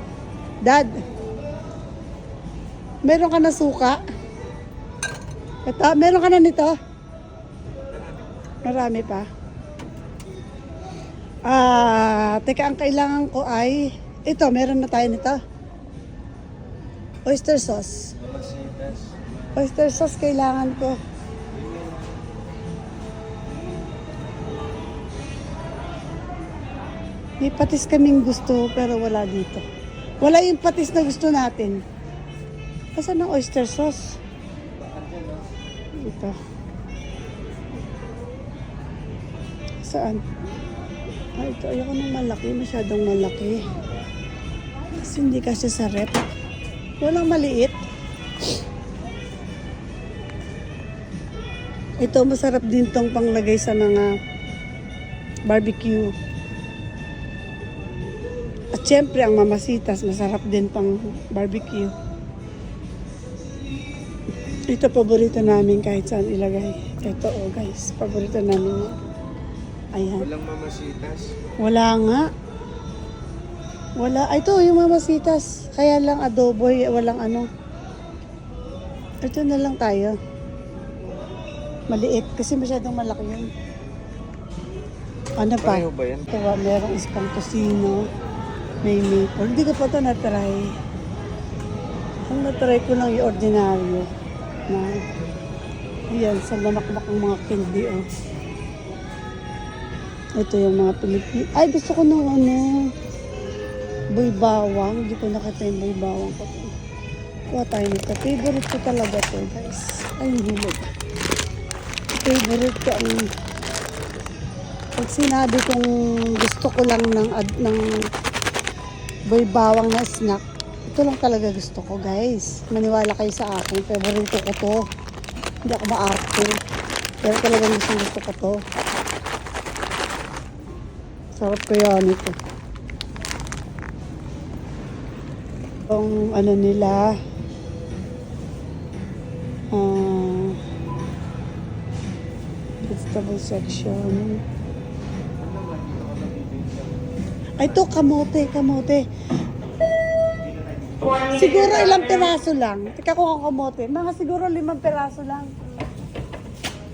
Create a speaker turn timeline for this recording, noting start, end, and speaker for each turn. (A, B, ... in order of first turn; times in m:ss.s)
0:00.6-0:00.9 A
0:03.1-0:04.0 A
0:05.7-0:06.8 A
0:08.6-0:09.3 A
0:11.5-0:15.4 A
0:17.3-0:18.2 A
0:18.2-0:19.1 B
0:19.6-0:21.0 A
0:21.5-0:22.2 B
0:27.4-0:29.6 A
0:30.2-0:31.8 A
0:33.0-0:34.2 A
0:36.0-0:36.4 A
0:39.8-0:40.2 A
0:41.4-0:43.6 A
0:45.0-0:46.3 A
0:47.0-0:47.8 A
0:52.0-0:54.1 A
0:55.5-0:56.1 A
0:58.8-1:01.9 A
1:04.7-1:09.0 A
1:10.0-1:10.3 A
1:10.2-1:11.3 B
1:11.6-1:12.3 A
1:14.0-1:17.5 A
1:19.2-1:20.2 A
1:21.9-1:23.5 A
1:25.4-1:28.0 A
1:25.7-1:26.3 B
1:28.8-1:30.7 A
1:32.3-1:34.1 A
1:36.1-1:38.1 A
1:40.4-1:42.8 A
1:44.1-1:46.7 A
1:47.5-1:50.8 A
1:52.2-1:53.2 A
1:55.0-1:57.8 A
1:59.3-2:04.8 A
2:05.6-2:06.5 A
2:07.2-2:08.6 A
2:11.4-2:12.4 A
2:15.9-2:17.2 A
2:19.7-2:20.6 A
2:22.8-2:24.4 A
2:25.6-2:26.7 B
2:27.6-2:29.0 A
2:31.1-2:35.5 A